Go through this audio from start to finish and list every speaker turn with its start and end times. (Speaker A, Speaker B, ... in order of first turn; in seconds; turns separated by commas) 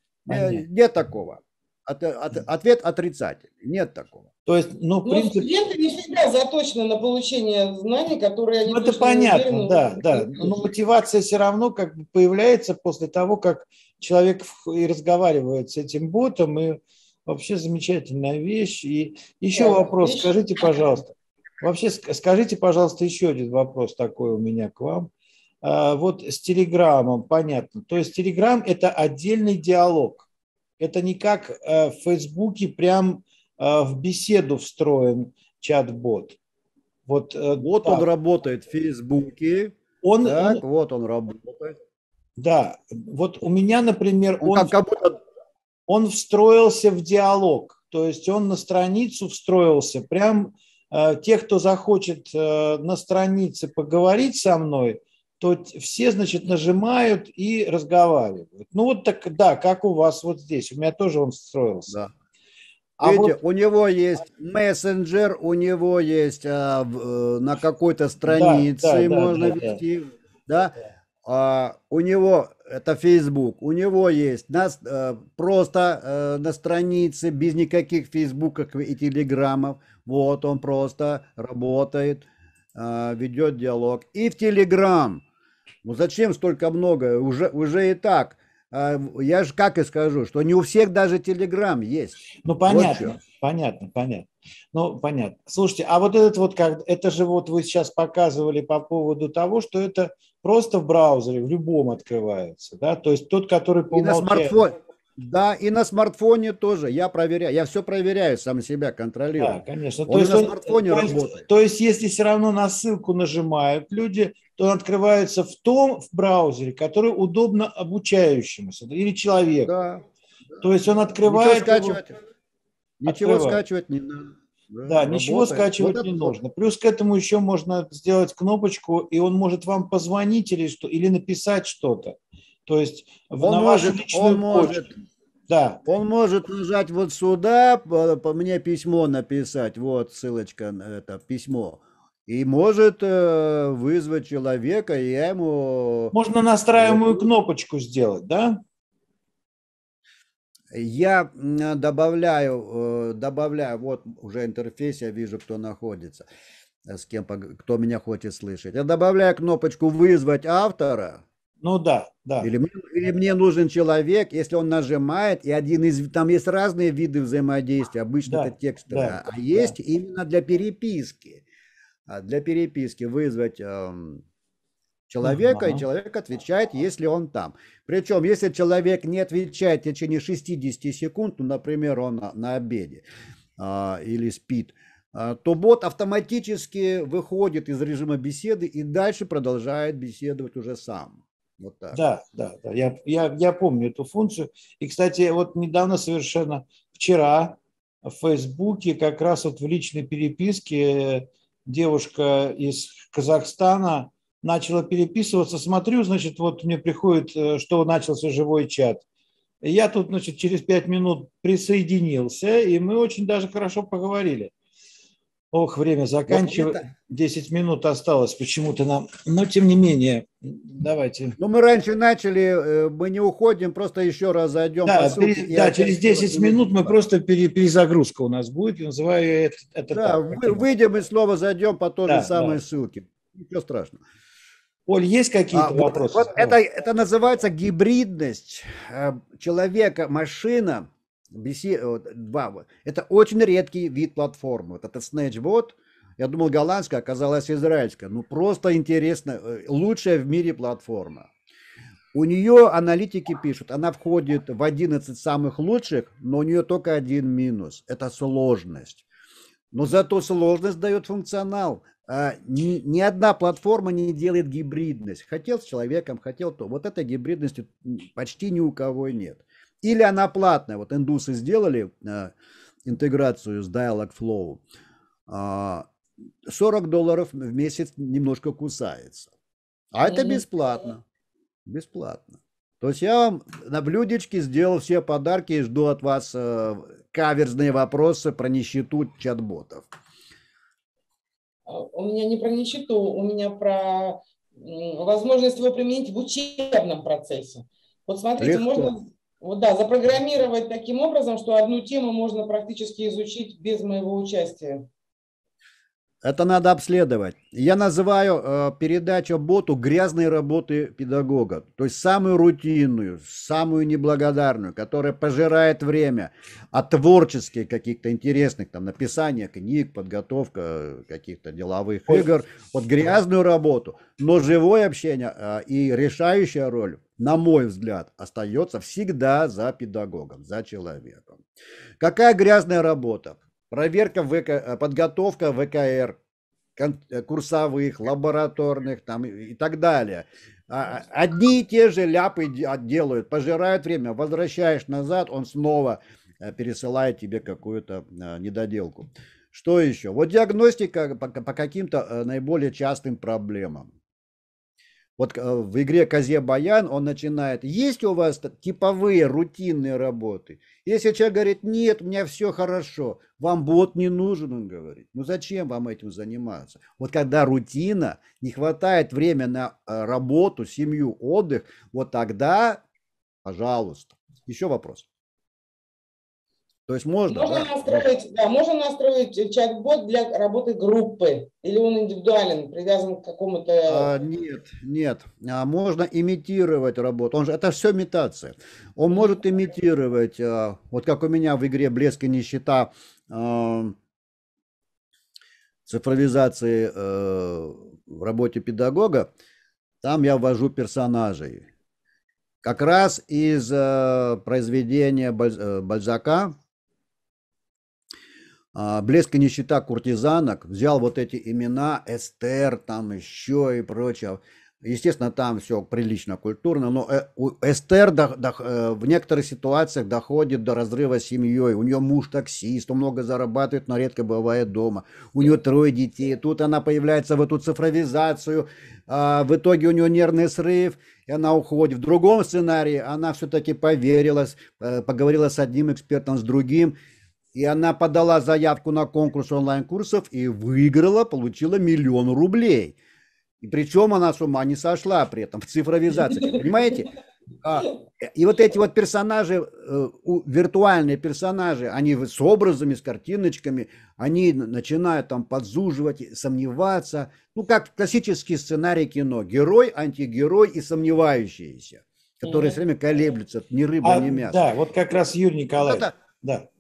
Speaker A: 0.3-0.6, Speaker B: 0.3-4.3, Speaker A: 4.5-5.5, Speaker C: 5.0-10.6, Speaker A: 8.7-25.1, Speaker C: 19.5-21.0, Speaker A: 25.6-30.3, Speaker A: 30.8-36.4, Speaker A: 37.1-38.1, Speaker B: 37.6-41.8, Speaker A: 40.0-40.6, Speaker A: 42.4-44.8, Speaker B: 44.4-45.2, Speaker A: 45.9-61.9, Speaker A: 63.0-63.4, Speaker B: 63.0-85.2, Speaker A: 68.2-69.8, Speaker B: 85.8-93.2, Speaker A: 92.4-104.6, Speaker B: 103.9-111.5, Speaker A: 109.4-119.7, Speaker B: 119.7-120.0, Speaker A: 120.6-122.0, Speaker B: 121.2-122.2, Speaker B: 123.0-126.4, Speaker A: 123.1-123.6, Speaker A: 124.9-134.8, Speaker B: 133.4-134.9, Speaker A: 135.5-135.8, Speaker B: 135.9-146.2, Speaker A: 146.1-148.6, Speaker B: 146.7-147.3, Speaker B: 150.7-156.3, Speaker B: 156.9-161.2, Speaker A: 161.6-162.5, Speaker B: 162.4-171.4, Speaker A: 168.3-169.8, Speaker B: 172.1-174.2, Speaker B: 175.1-183.0, Speaker A: 175.2-175.8, Speaker B: 183.6-192.0, Speaker A: 191.9-209.1, Speaker A: 209.6-214.5, Speaker A: 215.5-221.4, Speaker B: 216.3-216.8, Speaker B: 221.4-227.0, Speaker A: 224.9-230.6, Speaker B: 229.9-234.0, Speaker A: 232.1-232.6, Speaker A: 234.9-236.6, Speaker B: 235.5-251.3, Speaker B: 252.1-259.1, Speaker B: 259.7-272.3, Speaker B: 272.9-274.6, Speaker B: 275.3-275.9, Speaker B: 276.5-279.3, Speaker B: 279.9-281.0, Speaker C: 280.0-280.4, Speaker B: 281.7-289.9, Speaker C: 291.7-304.9, Speaker B: 298.4-298.9, Speaker B: 306.2-331.4, Speaker B: 332.0-336.2, Speaker B: 336.8-353.9, Speaker B: 355.2-372.8, Speaker B: 373.4-375.1, Speaker B: 376.9-378.1, Speaker C: 377.3-384.1, Speaker B: 383.9-393.9, Speaker B: 395.9-399.3, Speaker B: 400.0-401.7, Speaker B: 402.6-406.6, Speaker B: 408.8-436.9, Speaker B: 437.6-443.0, Speaker B: 443.6-447.1, Speaker C: 446.3-446.6, Speaker B: 447.6-464.6, Speaker C: 462.5-462.8, Speaker A: 464.0-466.7, Speaker B: 465.8-466.1